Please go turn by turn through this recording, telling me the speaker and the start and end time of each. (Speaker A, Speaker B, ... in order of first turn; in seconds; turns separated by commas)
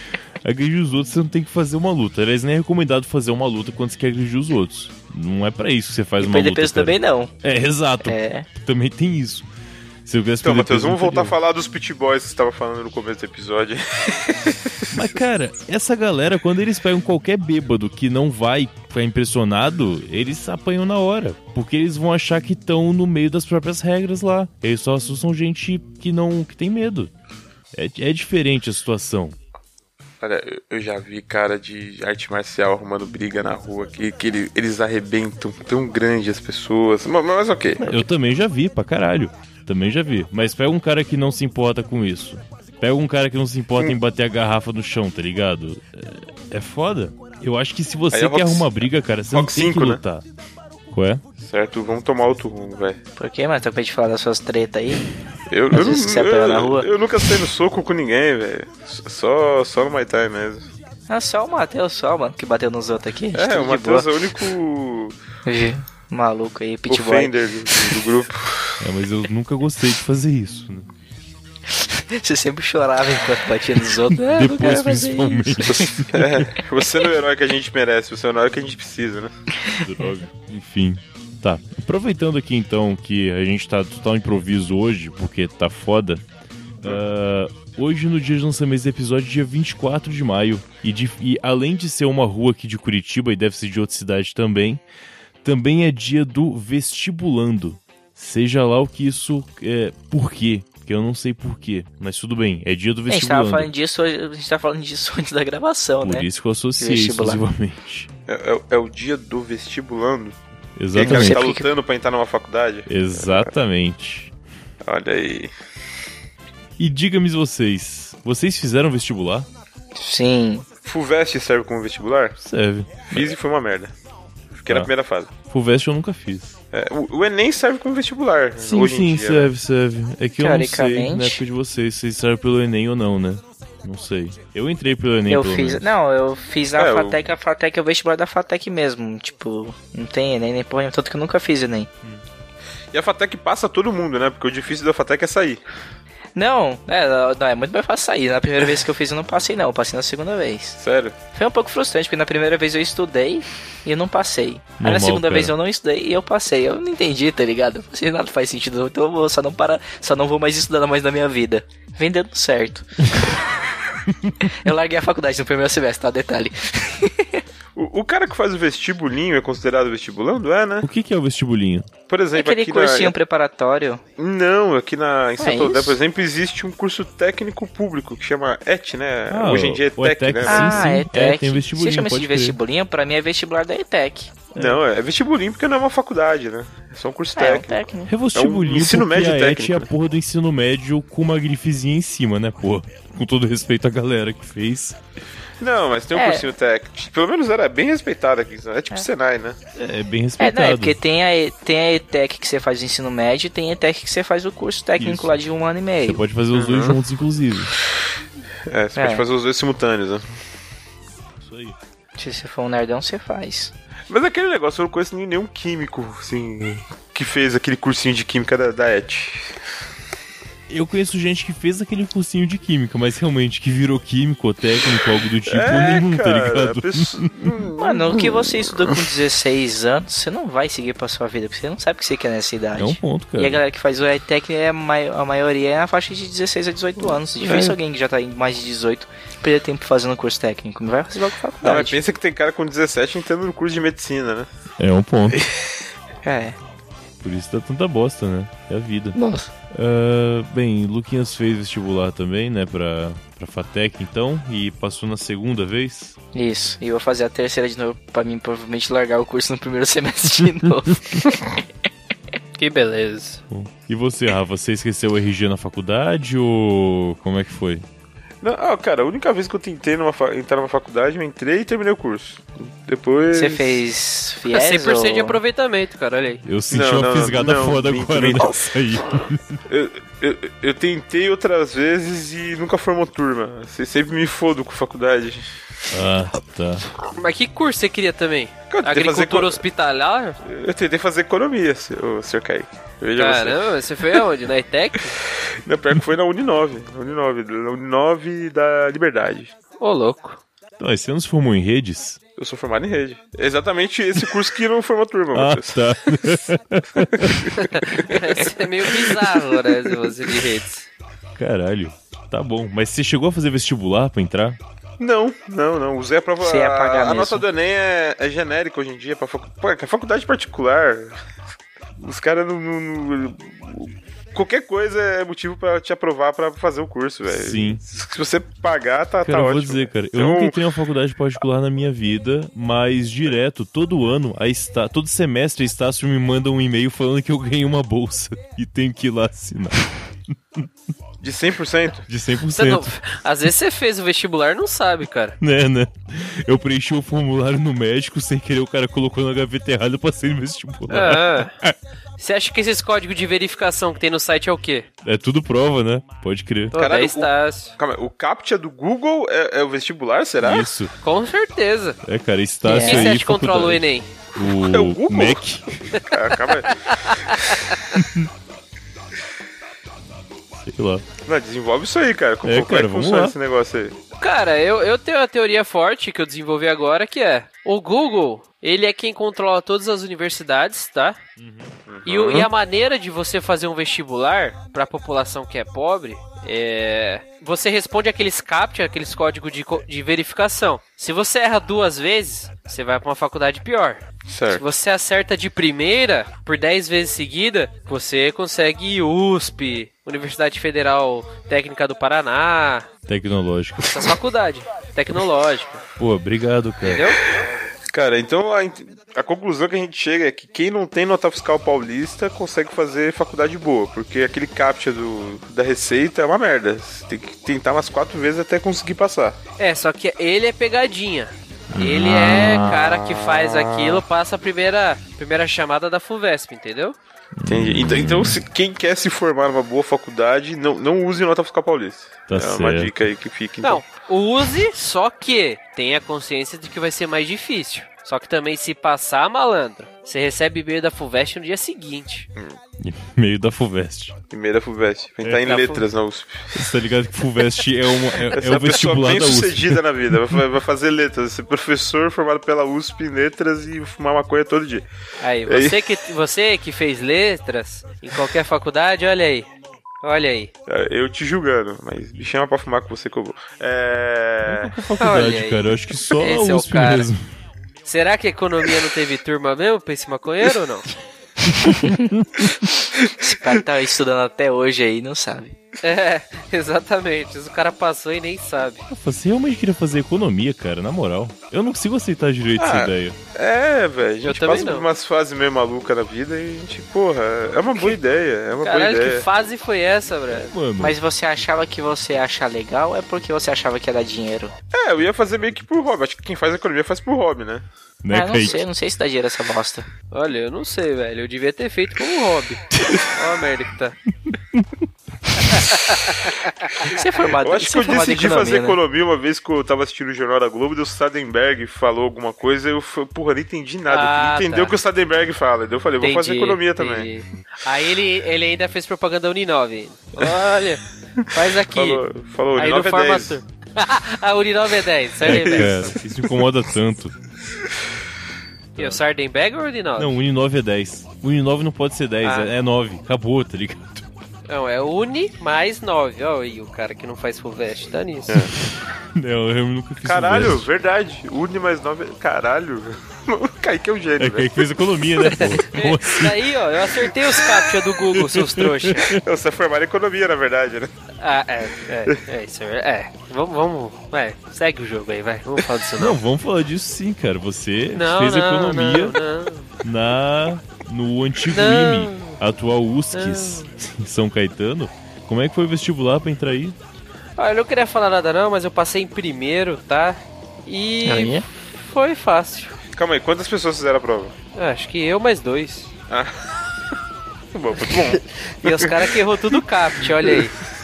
Speaker A: 0.4-9.5, Speaker B: 6.2-7.3, Speaker B: 8.1-8.4, Speaker A: 10.1-11.3, Speaker C: 10.4-15.1, Speaker A: 14.9-27.1, Speaker A: 27.7-29.4, Speaker C: 30.2-37.9, Speaker A: 37.8-50.2, Speaker C: 48.1-50.0, Speaker A: 50.9-51.2, Speaker C: 51.4-53.0, Speaker B: 53.2-55.0, Speaker C: 55.5-60.7, Speaker B: 55.7-56.9, Speaker B: 61.1-64.1, Speaker C: 63.3-65.2, Speaker B: 65.5-68.0, Speaker C: 66.9-68.8, Speaker A: 68.8-70.9, Speaker B: 71.7-76.0, Speaker A: 74.2-76.5, Speaker C: 76.1-79.3, Speaker A: 79.8-86.2, Speaker A: 86.8-94.8, Speaker A: 95.4-103.7, Speaker B: 103.1-106.3, Speaker A: 106.0-108.1, Speaker B: 106.8-107.4, Speaker C: 108.3-110.4, Speaker A: 110.8-111.4, Speaker C: 110.9-113.5, Speaker B: 111.0-111.7, Speaker A: 112.9-114.3, Speaker C: 114.8-115.5, Speaker A: 116.8-119.5, Speaker B: 120.0-120.7, Speaker C: 120.8-122.3, Speaker A: 122.4-123.3, Speaker C: 123.1-123.9, Speaker C: 124.5-125.3, Speaker A: 125.5-126.5, Speaker C: 126.7-129.5, Speaker A: 128.6-135.9, Speaker B: 130.4-131.4, Speaker B: 135.3-141.9, Speaker C: 136.7-137.2, Speaker C: 142.9-145.6, Speaker B: 146.3-150.8, Speaker C: 150.8-151.2, Speaker B: 151.3-163.1, Speaker A: 154.8-155.5, Speaker A: 164.1-164.4, Speaker B: 164.6-167.4, Speaker C: 167.8-170.9, Speaker A: 170.8-171.9, Speaker C: 172.1-173.1, Speaker B: 172.3-174.0, Speaker C: 174.2-180.9, Speaker B: 175.4-176.0, Speaker A: 179.3-182.6, Speaker B: 180.4-184.3, Speaker A: 184.5-184.8, Speaker C: 184.5-189.9, Speaker B: 187.3-188.2, Speaker A: 188.1-195.0, Speaker C: 195.6-199.6, Speaker B: 196.1-196.5, Speaker A: 199.8-200.9, Speaker B: 200.4-206.2, Speaker A: 205.0-205.4, Speaker A: 206.0-207.7, Speaker C: 206.5-207.0, Speaker C: 208.7-210.3, Speaker B: 208.9-209.2, Speaker A: 211.4-211.8, Speaker B: 212.2-213.7, Speaker C: 214.1-219.6, Speaker A: 220.7-227.3, Speaker C: 225.5-228.4, Speaker B: 227.8-242.0, Speaker A: 232.8-233.6, Speaker C: 237.4-237.7, Speaker C: 241.6-244.5, Speaker A: 244.8-245.4, Speaker B: 246.2-246.6, Speaker A: 247.2-249.2, Speaker B: 249.2-249.5, Speaker A: 249.7-256.1, Speaker B: 256.3-261.6, Speaker D: 262.6-263.4, Speaker A: 263.5-267.8, Speaker C: 268.4-273.8, Speaker B: 273.3-275.4, Speaker D: 274.5-276.4, Speaker A: 276.4-279.6, Speaker C: 276.7-278.7, Speaker C: 279.7-285.5, Speaker A: 285.9-286.9, Speaker D: 287.1-290.4, Speaker C: 288.7-289.6, Speaker C: 290.4-293.6, Speaker D: 293.2-295.1, Speaker C: 295.6-299.5, Speaker D: 299.8-300.4, Speaker A: 300.8-302.2, Speaker C: 302.4-305.8, Speaker A: 305.3-307.5, Speaker C: 307.2-308.2, Speaker D: 307.6-310.9, Speaker A: 311.4-314.6, Speaker C: 315.0-321.2, Speaker B: 316.4-317.4, Speaker C: 322.0-330.6, Speaker A: 327.3-327.8, Speaker A: 329.2-339.9, Speaker C: 341.2-342.0, Speaker A: 342.1-342.9, Speaker D: 342.5-345.4, Speaker A: 345.4-351.7, Speaker D: 350.9-351.5, Speaker D: 352.2-354.9, Speaker A: 355.0-356.8, Speaker D: 356.7-357.7, Speaker C: 356.7-360.7, Speaker A: 360.4-360.9, Speaker D: 361.0-362.0, Speaker A: 362.0-363.8, Speaker B: 362.7-363.1, Speaker D: 362.8-364.1, Speaker A: 364.4-366.0, Speaker C: 364.5-365.4, Speaker C: 366.0-366.8, Speaker D: 366.7-367.5, Speaker A: 367.9-368.3, Speaker A: 370.6-371.0, Speaker C: 371.2-373.9, Speaker A: 372.4-373.3, Speaker D: 374.2-381.2, Speaker A: 381.4-381.7, Speaker C: 381.9-382.5, Speaker D: 382.1-402.9, Speaker C: 394.3-394.6, Speaker A: 403.1-403.9, Speaker D: 403.9-405.8, Speaker A: 406.0-407.1, Speaker D: 406.8-407.2, Speaker C: 407.2-419.4, Speaker D: 419.6-426.9, Speaker A: 421.7-422.8, Speaker C: 422.8-423.5, Speaker A: 427.4-428.4, Speaker C: 427.5-433.9, Speaker A: 432.3-432.9, Speaker D: 433.6-442.3, Speaker A: 442.8-444.1, Speaker C: 444.3-446.7, Speaker A: 445.2-445.7, Speaker D: 445.4-445.8, Speaker A: 446.5-449.8, Speaker C: 448.3-454.9, Speaker D: 455.2-459.5, Speaker C: 455.4-455.8, Speaker D: 460.0-460.5, Speaker C: 460.7-464.7, Speaker A: 464.4-467.2, Speaker D: 465.0-467.1, Speaker D: 467.8-470.9, Speaker A: 471.6-472.2, Speaker B: 471.7-472.0, Speaker B: 473.2-475.5, Speaker D: 475.8-478.8, Speaker A: 478.9-483.2, Speaker C: 482.6-489.2, Speaker D: 484.2-484.9, Speaker D: 488.6-490.5, Speaker A: 490.3-491.0, Speaker B: 490.8-494.5, Speaker C: 494.7-497.6, Speaker A: 498.0-498.6, Speaker B: 498.1-499.9, Speaker D: 500.1-504.0, Speaker A: 504.3-504.6, Speaker D: 505.5-506.1, Speaker B: 506.8-508.8, Speaker C: 507.4-517.1, Speaker D: 513.9-514.8, Speaker D: 516.0-522.0, Speaker C: 521.6-523.4, Speaker D: 522.5-525.9, Speaker A: 525.2-527.1, Speaker C: 525.2-526.0, Speaker D: 528.8-530.2, Speaker A: 530.0-534.0, Speaker D: 532.2-532.5, Speaker D: 534.5-538.5, Speaker A: 539.1-540.7, Speaker C: 540.0-544.7, Speaker A: 544.2-546.3, Speaker D: 545.3-549.1, Speaker A: 548.1-549.2, Speaker C: 549.1-550.9, Speaker D: 551.2-556.2, Speaker A: 556.0-559.1, Speaker D: 557.9-559.7, Speaker A: 559.8-566.8, Speaker D: 561.5-562.4, Speaker D: 563.1-563.6, Speaker D: 567.4-572.8, Speaker B: 571.0-571.4, Speaker C: 572.9-574.3, Speaker D: 574.5-575.9, Speaker C: 576.1-576.4, Speaker C: 577.5-579.0, Speaker D: 577.9-580.5